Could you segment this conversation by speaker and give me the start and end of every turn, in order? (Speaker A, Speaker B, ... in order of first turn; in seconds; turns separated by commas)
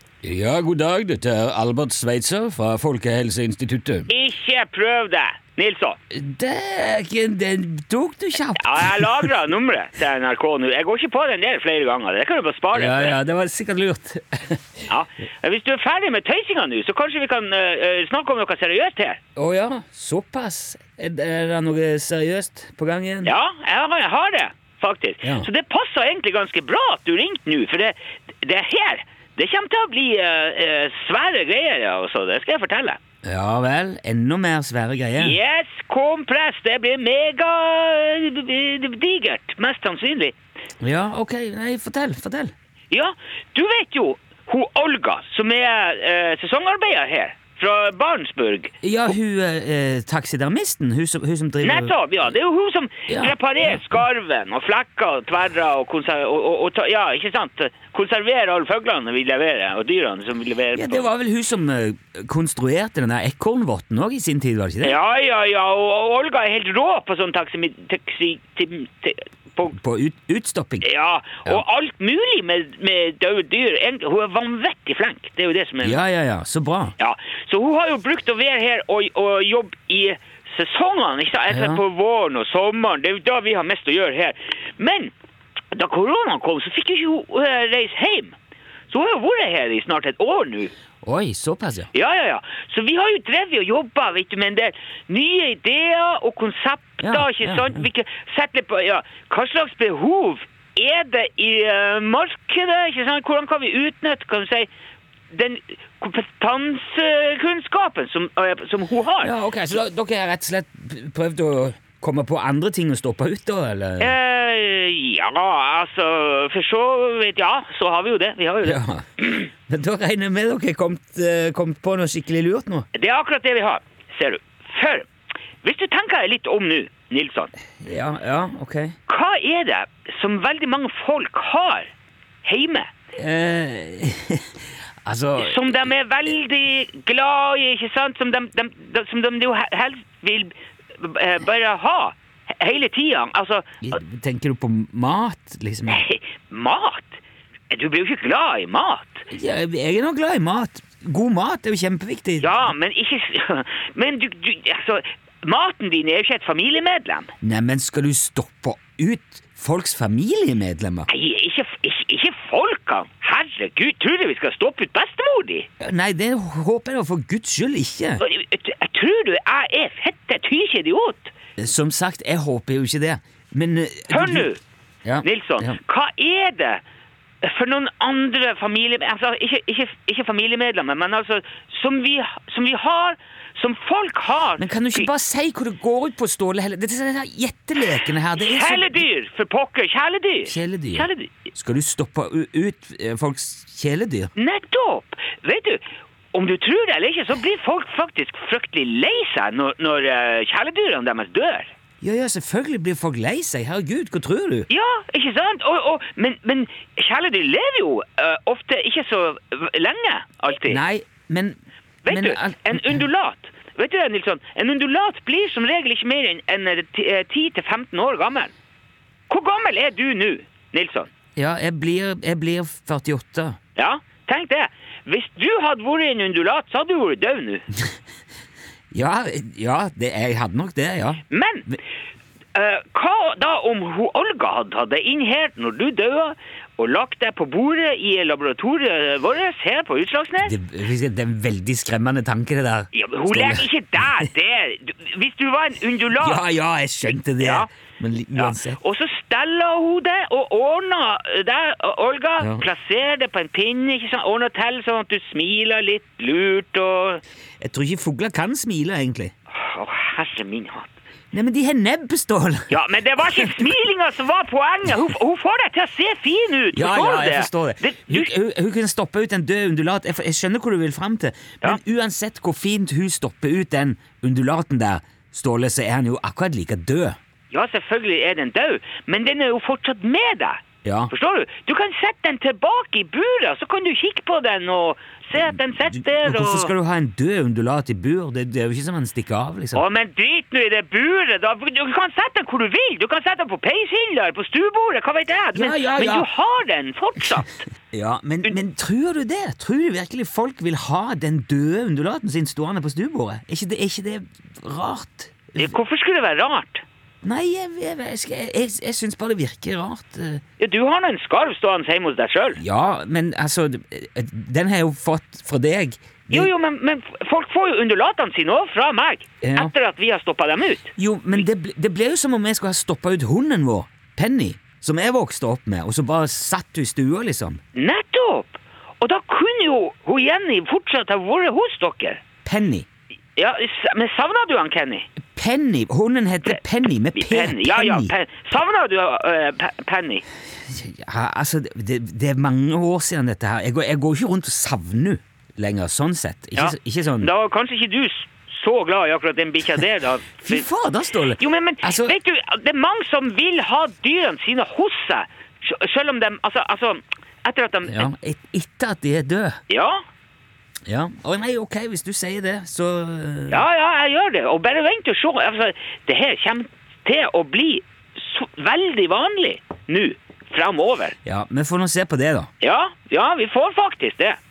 Speaker A: 0.2-4.1, Speaker B: 4.1-6.0, Speaker A: 6.1-9.3, Speaker B: 8.5-13.2, Speaker A: 12.7-14.9, Speaker B: 14.9-19.2, Speaker A: 19.4-23.3, Speaker B: 23.2-33.0, Speaker A: 25.2-25.5, Speaker A: 33.2-35.4, Speaker B: 35.2-40.3, Speaker A: 40.8-42.5, Speaker B: 42.9-48.7, Speaker A: 48.8-51.9, Speaker B: 51.6-61.1, Speaker A: 53.1-54.0, Speaker A: 60.7-65.0, Speaker B: 64.8-69.8, Speaker A: 69.7-70.9, Speaker B: 70.8-76.0, Speaker A: 75.8-77.0, Speaker B: 77.0-85.1, Speaker A: 81.5-81.8, Speaker B: 85.7-88.4, Speaker B: 88.9-90.7, Speaker A: 91.0-91.9, Speaker B: 91.9-104.7, Speaker A: 97.0-97.8, Speaker B: 105.3-109.3, Speaker A: 109.2-114.2, Speaker B: 114.0-118.8, Speaker A: 118.6-122.9, Speaker B: 122.9-125.1, Speaker B: 125.6-127.5, Speaker A: 127.8-128.9, Speaker B: 129.1-131.9, Speaker B: 132.4-132.9, Speaker A: 133.2-135.9, Speaker B: 135.4-143.8, Speaker A: 143.8-146.1, Speaker B: 145.9-147.2, Speaker B: 147.7-149.3, Speaker A: 149.3-152.7, Speaker B: 152.4-157.3, Speaker A: 157.4-161.1, Speaker B: 161.1-165.7, Speaker A: 165.8-168.2, Speaker B: 168.2-171.3, Speaker A: 171.6-174.5, Speaker B: 174.1-174.6, Speaker A: 175.1-175.8, Speaker B: 175.2-176.8, Speaker B: 177.4-185.1, Speaker A: 184.6-189.0, Speaker B: 188.4-191.3, Speaker A: 190.5-194.3, Speaker B: 194.3-201.7, Speaker A: 202.0-204.7, Speaker B: 204.7-210.8, Speaker A: 210.7-213.0, Speaker B: 212.0-218.5, Speaker B: 219.3-221.1, Speaker A: 221.3-223.6, Speaker B: 223.8-227.7, Speaker A: 228.9-231.8, Speaker B: 231.3-231.7, Speaker B: 232.5-240.6, Speaker A: 240.4-244.3, Speaker B: 242.9-246.4, Speaker A: 246.2-248.8, Speaker B: 247.4-247.7, Speaker B: 248.3-257.2, Speaker A: 252.4-252.7, Speaker A: 257.6-259.3, Speaker B: 259.5-260.9, Speaker A: 261.3-262.8, Speaker B: 262.7-268.3, Speaker A: 263.3-263.7, Speaker A: 266.7-277.2, Speaker B: 277.5-286.7, Speaker A: 280.8-281.1, Speaker A: 285.9-289.8, Speaker B: 289.8-297.7, Speaker A: 295.6-296.3, Speaker A: 297.9-305.8, Speaker B: 305.6-306.8, Speaker A: 307.2-310.4, Speaker B: 310.6-312.6, Speaker A: 312.6-316.5, Speaker B: 316.3-321.4, Speaker A: 319.4-319.7, Speaker A: 321.0-327.6, Speaker B: 327.8-332.2, Speaker A: 332.4-332.9, Speaker B: 333.4-335.1, Speaker A: 335.4-338.1, Speaker B: 337.1-340.2, Speaker A: 340.6-347.3, Speaker B: 346.6-350.7, Speaker A: 350.4-352.1, Speaker B: 351.4-358.1, Speaker A: 357.9-359.6, Speaker B: 359.7-360.0, Speaker A: 360.9-363.6, Speaker B: 363.5-371.2, Speaker A: 371.2-372.5, Speaker B: 372.6-374.4